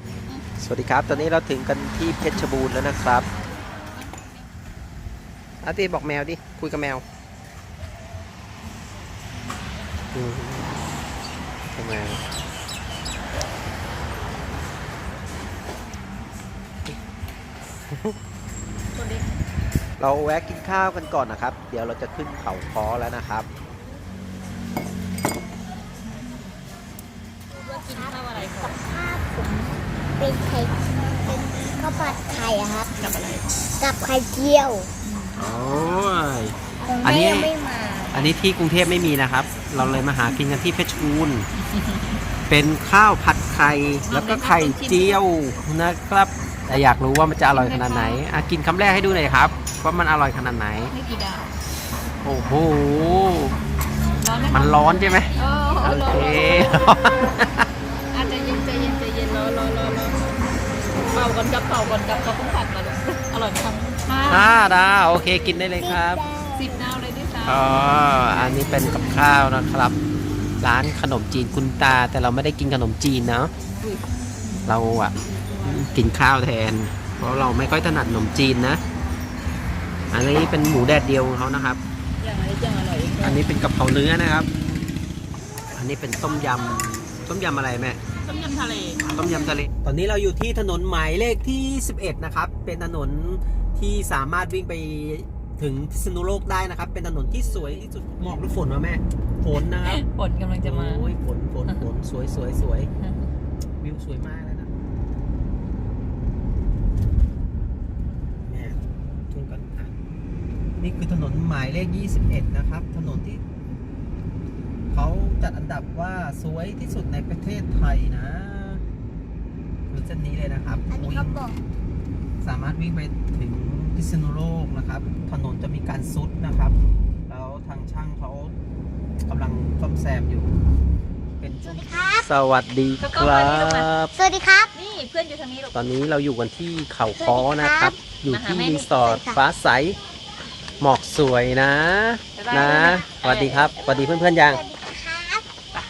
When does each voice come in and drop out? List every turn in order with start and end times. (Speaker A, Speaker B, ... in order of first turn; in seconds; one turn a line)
Speaker A: 0.6-3.2
Speaker A: 5.6-7.0
Speaker A: 10.1-10.8
Speaker A: 11.7-12.2
Speaker B: 18.9-19.3
Speaker A: 20.0-23.5
Speaker B: 27.5-28.8
Speaker C: 27.7-29.6
Speaker C: 30.2-32.9
Speaker B: 33.0-33.5
Speaker C: 33.8-34.9
Speaker B: 35.0-35.5
Speaker A: 35.4-37.5
Speaker C: 36.9-38.1
Speaker A: 38.1-41.5
Speaker B: 41.6-42.2
Speaker A: 42.5-50.9
Speaker B: 44.1-45.2
Speaker B: 47.5-48.2
Speaker B: 50.9-51.5
Speaker A: 52.2-53.6
Speaker B: 54.2-57.2
Speaker A: 54.5-57.7
Speaker B: 58.1-60.3
Speaker B: 61.0-64.5
Speaker A: 64.3-66.2
Speaker C: 65.8-66.9
Speaker B: 66.6-67.7
Speaker A: 67.4-70.0
Speaker A: 70.6-73.5
Speaker B: 73.8-74.7
Speaker A: 74.6-78.8
Speaker A: 80.1-81.8
Speaker B: 82.2-83.4
Speaker A: 83.2-84.5
Speaker A: 85.7-88.0
Speaker B: 88.2-89.5
Speaker A: 89.1-100.0
Speaker B: 97.3-97.8
Speaker B: 99.8-101.1
Speaker A: 100.6-102.9
Speaker A: 103.8-104.7
Speaker A: 108.5-110.0
Speaker A: 110.8-113.4
Speaker A: 114.9-118.8
Speaker A: 119.9-121.4
Speaker C: 120.9-121.6
Speaker A: 122.4-126.8
Speaker A: 127.3-128.5
Speaker A: 129.2-130.6
Speaker A: 131.4-134.1
Speaker C: 131.6-132.3
Speaker B: 133.0-133.9
Speaker C: 134.1-134.7
Speaker B: 134.7-135.8
Speaker A: 135.7-140.0
Speaker C: 137.2-138.0
Speaker B: 138.2-138.9
Speaker C: 139.0-139.4
Speaker A: 140.8-144.6
Speaker B: 142.3-143.8
Speaker C: 143.8-145.4